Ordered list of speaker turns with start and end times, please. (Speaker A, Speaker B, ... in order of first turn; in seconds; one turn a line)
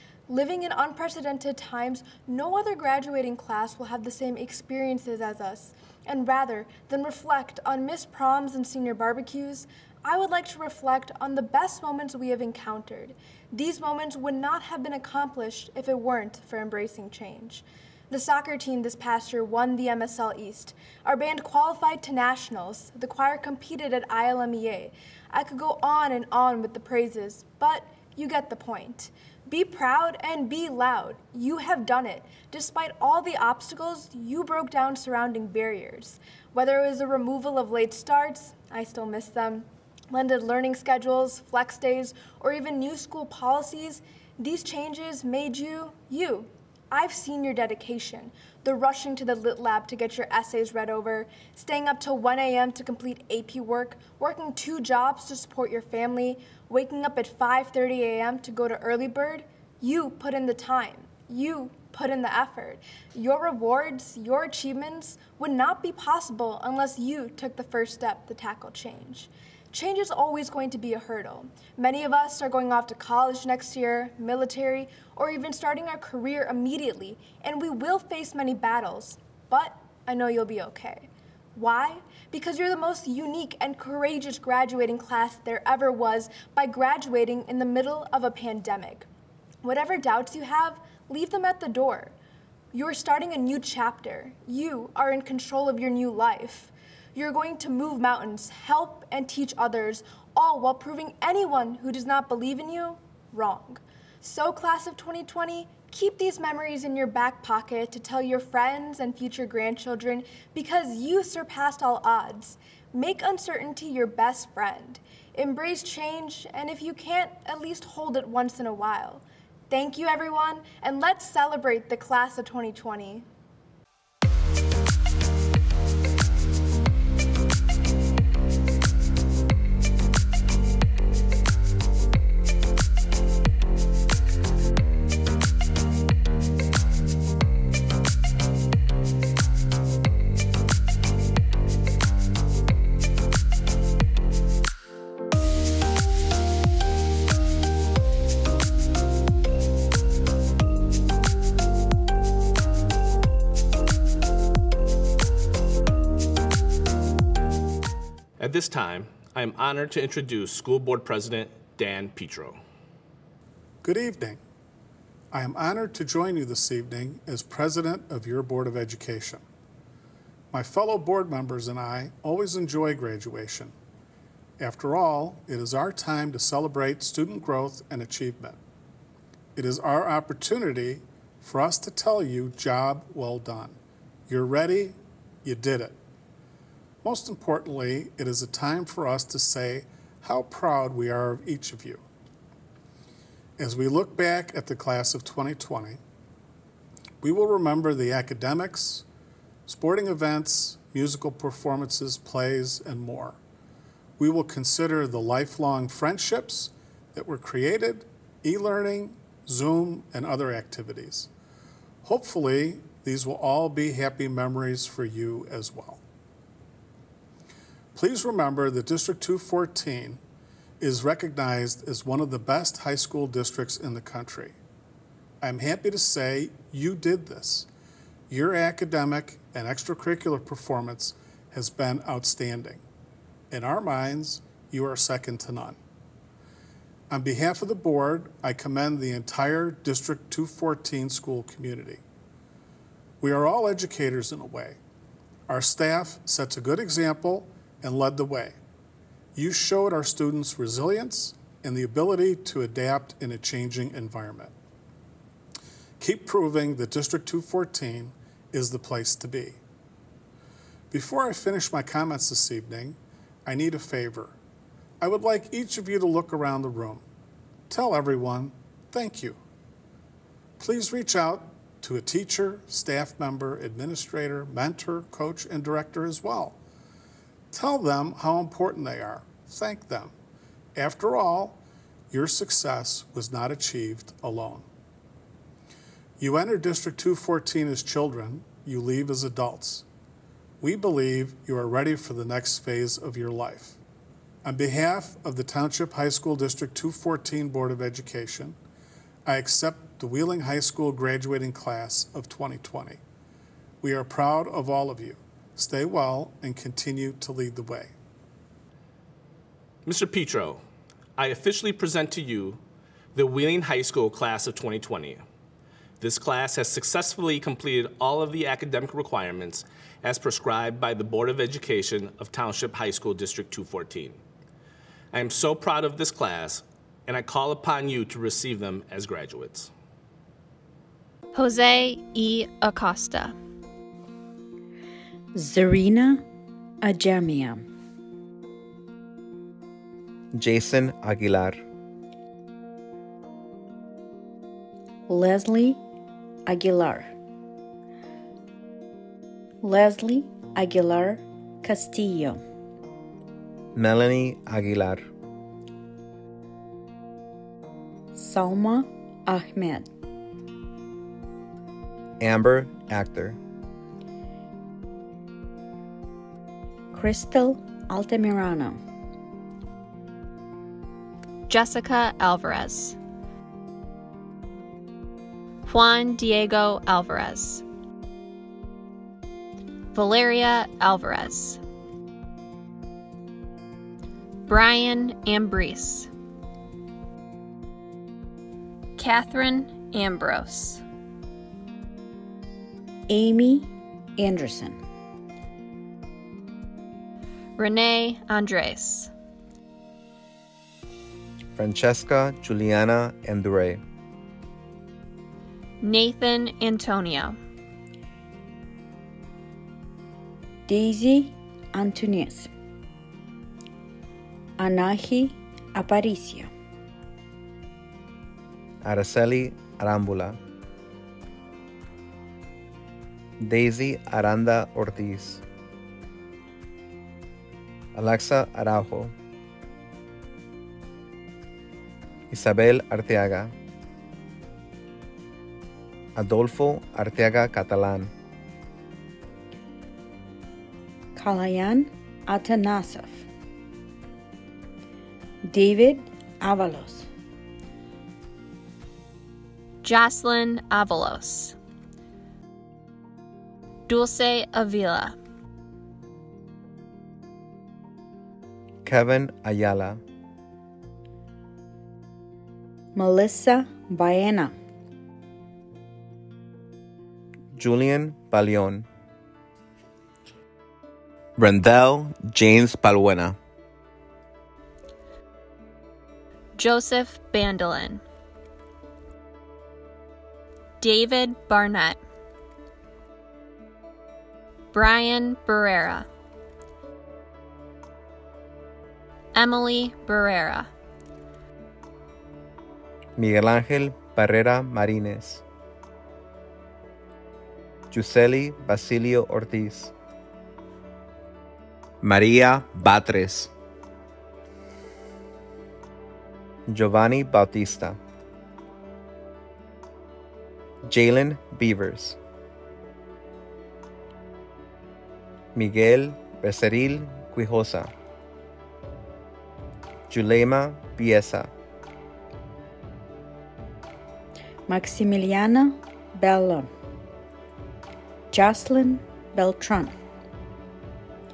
Speaker A: 0.3-89.1
Speaker A: 89.6-92.1
Speaker A: 92.7-123.3
Speaker B: 158.4-162.6
Speaker C: 163.8-164.4
Speaker C: 165.3-169.4
Speaker C: 170.5-173.7
Speaker C: 174.6-178.6
Speaker C: 179.6-183.8
Speaker C: 184.3-186.0
Speaker C: 187.0-192.0
Speaker C: 193.6-196.0
Speaker C: 197.2-199.0
Speaker C: 199.7-203.4
Speaker C: 204.2-211.3
Speaker C: 212.0-216.0
Speaker C: 217.9-220.2
Speaker C: 220.8-224.6
Speaker C: 225.4-227.7
Speaker C: 228.3-232.8
Speaker C: 233.5-235.8
Speaker C: 237.1-242.0
Speaker C: 243.2-244.8
Speaker C: 245.5-248.6
Speaker C: 249.3-254.5
Speaker C: 256.0-259.6
Speaker C: 260.9-264.4
Speaker C: 265.0-267.0
Speaker C: 267.7-269.4
Speaker C: 270.6-276.6
Speaker C: 277.5-280.1
Speaker C: 280.8-281.6
Speaker C: 282.1-284.7
Speaker C: 286.2-289.9
Speaker C: 290.6-293.8
Speaker C: 294.4-298.6
Speaker C: 299.3-303.0
Speaker C: 303.8-307.9
Speaker B: 309.9-310.6
Speaker B: 311.2-312.6
Speaker B: 313.1-315.2
Speaker B: 316.0-324.2
Speaker B: 325.1-329.7
Speaker D: 331.3-333.4
Speaker E: 335.4-336.2
Speaker E: 336.8-337.7
Speaker F: 340.3-341.6
Speaker E: 345.1-345.8
Speaker E: 346.5-347.1
Speaker E: 349.6-352.4
Speaker F: 353.8-355.1
Speaker E: 358.1-359.9
Speaker F: 362.2-363.4
Speaker E: 366.9-368.8
Speaker D: 371.5-373.0
Speaker D: 375.7-377.6
Speaker D: 379.9-381.6
Speaker D: 384.5-386.1
Speaker D: 389.0-390.8
Speaker E: 393.1-394.8
Speaker D: 397.6-399.1
Speaker F: 401.6-403.8
Speaker D: 405.8-407.4
Speaker E: 410.7-412.5
Speaker E: 414.6-416.5
Speaker F: 418.8-420.4
Speaker F: 423.4-425.4
Speaker F: 427.9-429.1
Speaker F: 432.3-433.5
Speaker F: 436.2-438.1
Speaker E: 441.2-443.2
Speaker E: 445.4-447.1
Speaker D: 449.8-451.6
Speaker D: 453.9-455.2
Speaker F: 458.9-460.0
Speaker E: 462.9-464.6
Speaker F: 467.5-468.9
Speaker F: 471.4-473.4
Speaker D: 476.6-478.0
Speaker D: 480.8-482.0
Speaker D: 484.7-486.1
Speaker D: 489.4-490.7
Speaker F: 493.2-495.4
Speaker F: 497.9-499.9
Speaker F: 502.0-503.5
Speaker F: 506.7-508.0
Speaker F: 510.8-512.2
Speaker F: 515.5-517.9
Speaker F: 520.1-521.5
Speaker E: 524.7-526.7
Speaker E: 528.3-530.0